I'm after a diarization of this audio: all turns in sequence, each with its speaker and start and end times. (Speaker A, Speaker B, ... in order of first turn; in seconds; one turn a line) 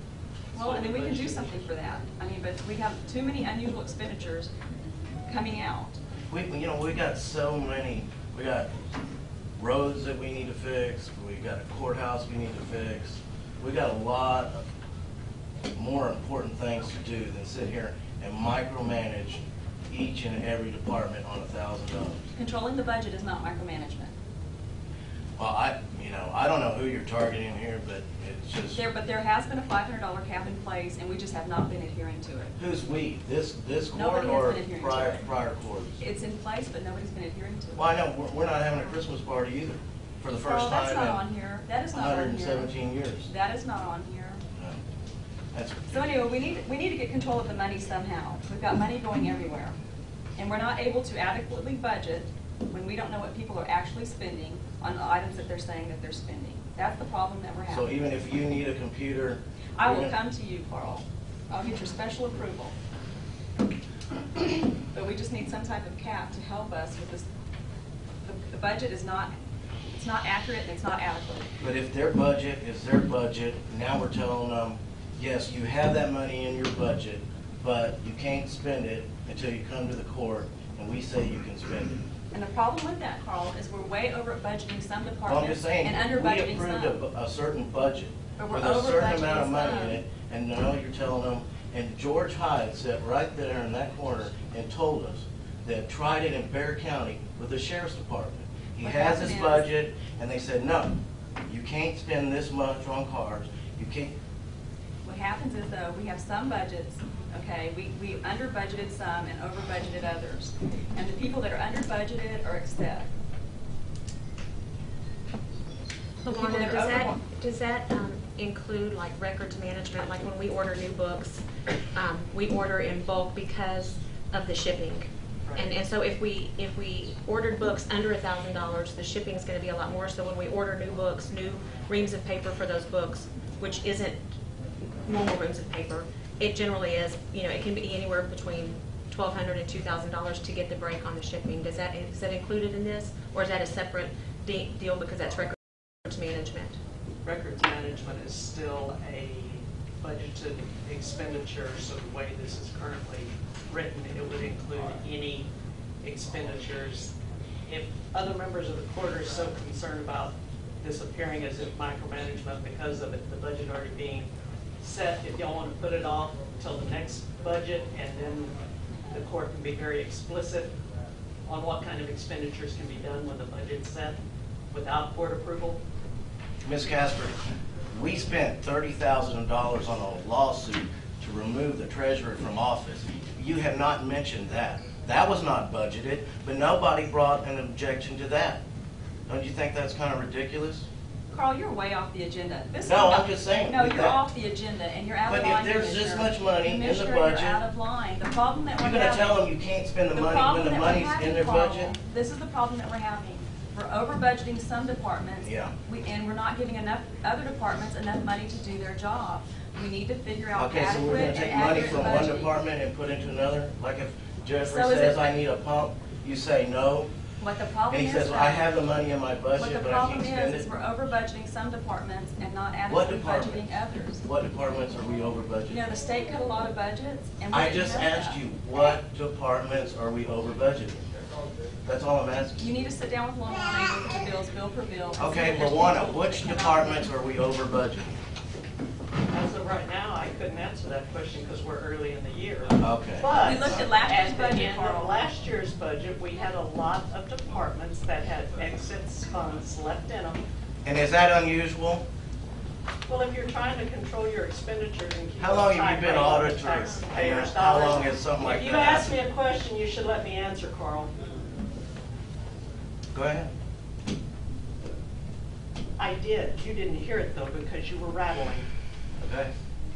Speaker A: 0.5-1.7
Speaker B: 0.5-4.5
Speaker B: 5.2-6.0
Speaker A: 6.3-8.7
Speaker A: 9.6-14.6
Speaker A: 15.7-22.3
Speaker B: 22.3-24.1
Speaker A: 25.4-28.8
Speaker B: 28.7-32.5
Speaker A: 32.6-36.0
Speaker B: 33.9-35.3
Speaker B: 36.0-38.0
Speaker A: 37.8-41.2
Speaker B: 40.4-42.7
Speaker A: 41.9-43.3
Speaker B: 43.2-44.4
Speaker A: 45.5-46.1
Speaker B: 45.9-49.8
Speaker B: 50.4-57.9
Speaker A: 57.7-60.1
Speaker B: 59.8-62.7
Speaker B: 64.4-67.2
Speaker B: 68.2-69.3
Speaker B: 69.9-71.5
Speaker A: 71.6-82.0
Speaker B: 82.3-87.0
Speaker A: 85.2-104.1
Speaker B: 88.4-90.0
Speaker B: 98.8-99.7
Speaker B: 105.0-113.1
Speaker C: 116.2-134.3
Speaker B: 116.3-117.2
Speaker C: 135.0-146.8
Speaker D: 147.2-155.5
Speaker D: 156.0-164.3
Speaker D: 164.8-168.5
Speaker D: 169.1-170.7
Speaker D: 171.4-175.8
Speaker A: 176.6-177.4
Speaker A: 177.9-188.6
Speaker A: 189.3-190.8
Speaker B: 191.3-199.4
Speaker A: 192.8-194.2
Speaker A: 195.3-197.6
Speaker A: 198.8-201.9
Speaker B: 200.1-212.5
Speaker A: 205.4-205.7
Speaker A: 210.5-217.1
Speaker B: 214.6-215.3
Speaker B: 217.4-218.7
Speaker A: 217.9-220.7
Speaker B: 219.5-224.2
Speaker A: 222.9-225.8
Speaker B: 225.7-228.4
Speaker A: 227.5-231.0
Speaker A: 231.8-232.7
Speaker B: 232.6-237.1
Speaker A: 235.2-238.1
Speaker D: 239.3-250.4
Speaker A: 242.8-243.9
Speaker B: 243.4-245.2
Speaker A: 250.8-252.0
Speaker D: 253.1-261.1
Speaker A: 255.4-259.1
Speaker A: 263.1-263.5
Speaker D: 266.0-268.7
Speaker A: 269.2-269.5